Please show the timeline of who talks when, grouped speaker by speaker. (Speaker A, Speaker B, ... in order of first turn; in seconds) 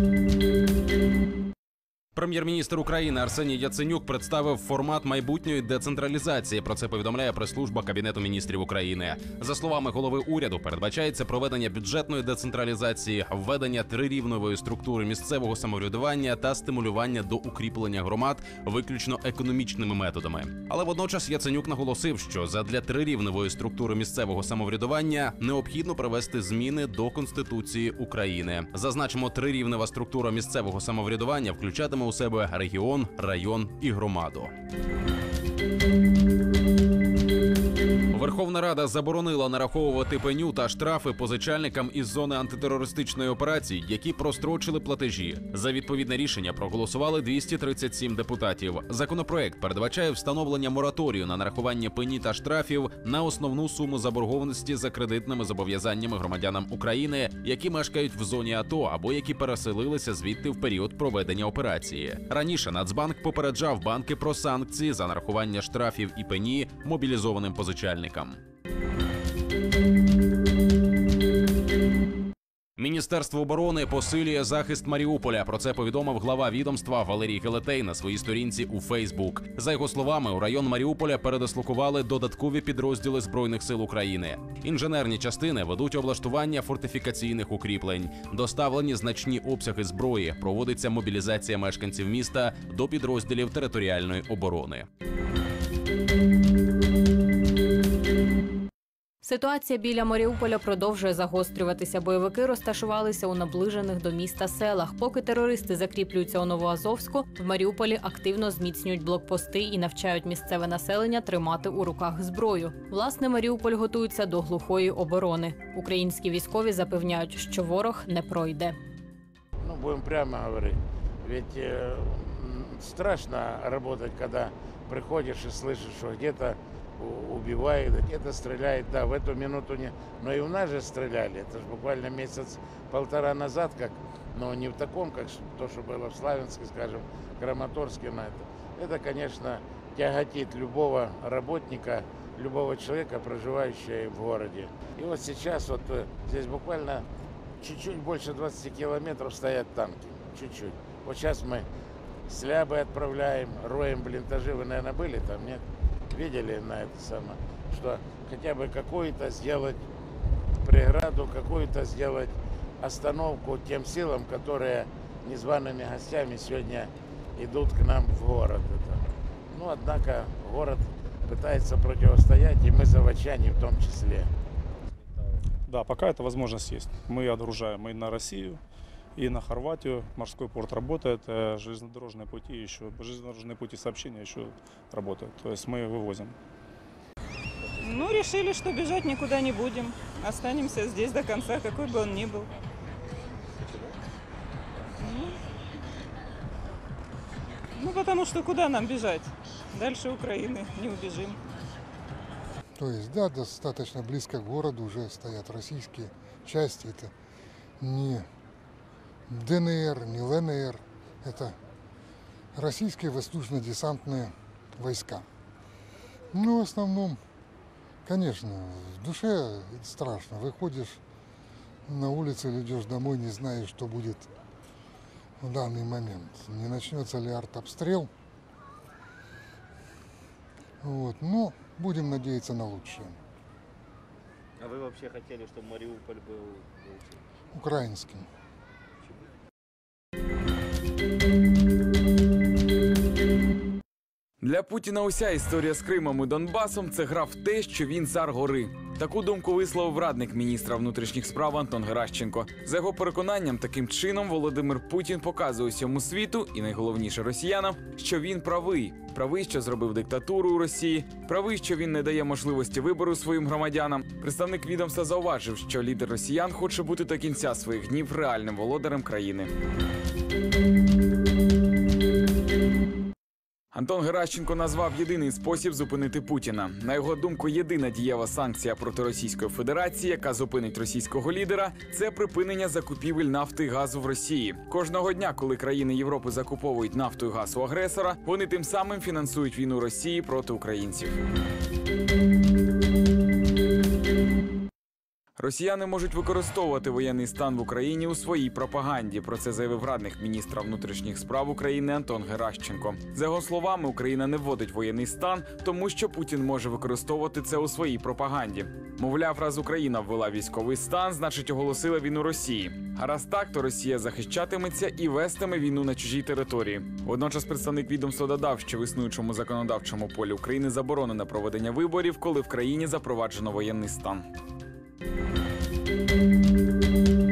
Speaker A: 2.1-34.5, 38.1-68.4, 72.8-94.9
Speaker B: 99.2-118.8
Speaker C: 119.6-147.1, 147.6-151.7, 152.3-159.8, 160.6-169.0, 169.5-174.3
Speaker D: 175.7-178.6, 179.2-186.3
Speaker E: 187.6-188.1, 193.6-193.9, 234.6-237.2
Speaker F: 187.8-192.5, 195.0-195.4, 197.8-201.4
Speaker G: 202.8-207.1, 207.8-208.3, 209.3-211.6, 212.5-215.2, 216.3-217.2, 218.0-221.0, 221.9-224.3, 225.4-228.1, 230.8-233.2, 237.5-238.3
Speaker H: 244.4-269.5, 273.7-291.2, 295.4-324.2